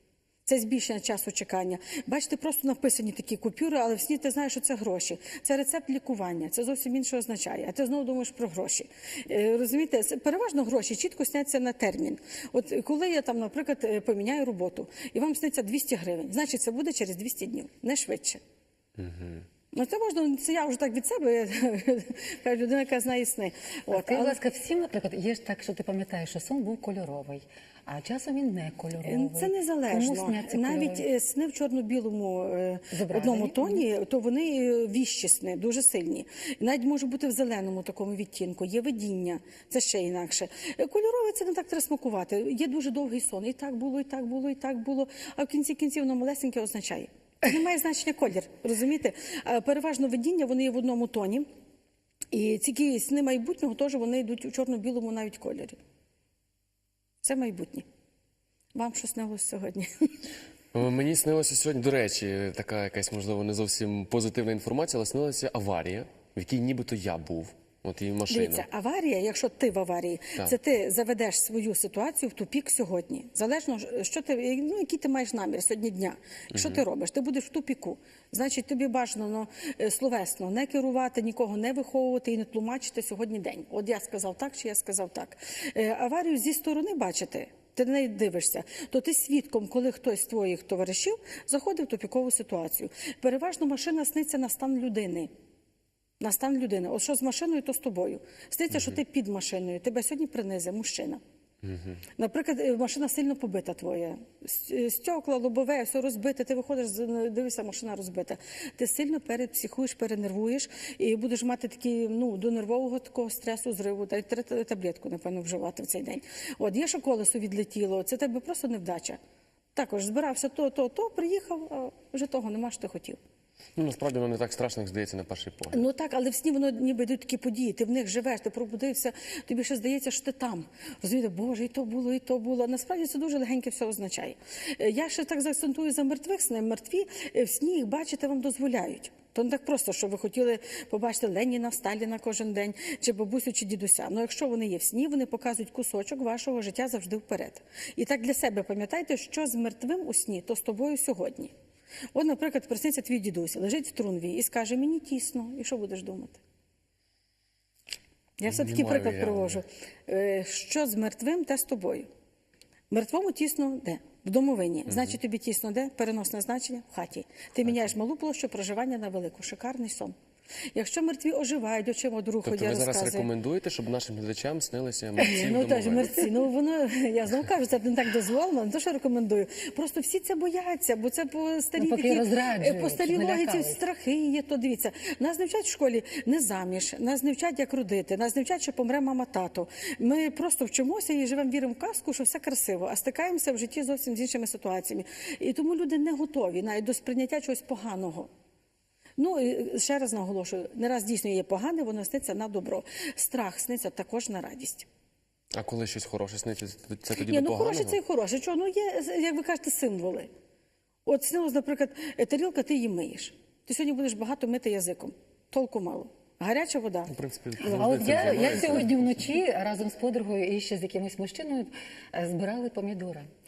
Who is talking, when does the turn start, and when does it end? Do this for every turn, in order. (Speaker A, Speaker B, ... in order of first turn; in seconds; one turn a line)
Speaker A: 0.5-18.4
Speaker B: 19.0-19.4
Speaker A: 19.7-24.4
Speaker C: 23.9-31.0
Speaker A: 29.0-51.5
Speaker C: 32.9-33.8
Speaker A: 52.3-55.8
Speaker A: 57.2-57.9
Speaker A: 58.7-60.1
Speaker B: 60.7-68.7
Speaker A: 68.3-95.3
Speaker B: 76.5-76.8
Speaker A: 96.2-101.2
Speaker A: 102.2-119.2
Speaker A: 119.7-123.2
Speaker B: 123.8-125.8
Speaker A: 125.7-151.5
Speaker A: 152.1-156.4
Speaker A: 158.4-162.1
Speaker B: 158.4-159.6
Speaker A: 162.9-170.1
Speaker B: 164.9-165.1
Speaker B: 167.7-167.9
Speaker A: 170.7-173.3
Speaker B: 172.4-176.2
Speaker A: 175.2-198.3
Speaker C: 181.8-183.8
Speaker A: 199.2-204.8
Speaker B: 205.5-208.0
Speaker A: 207.2-210.3
Speaker A: 211.1-217.1
Speaker B: 217.1-219.2
Speaker C: 217.6-223.3
Speaker A: 217.7-218.7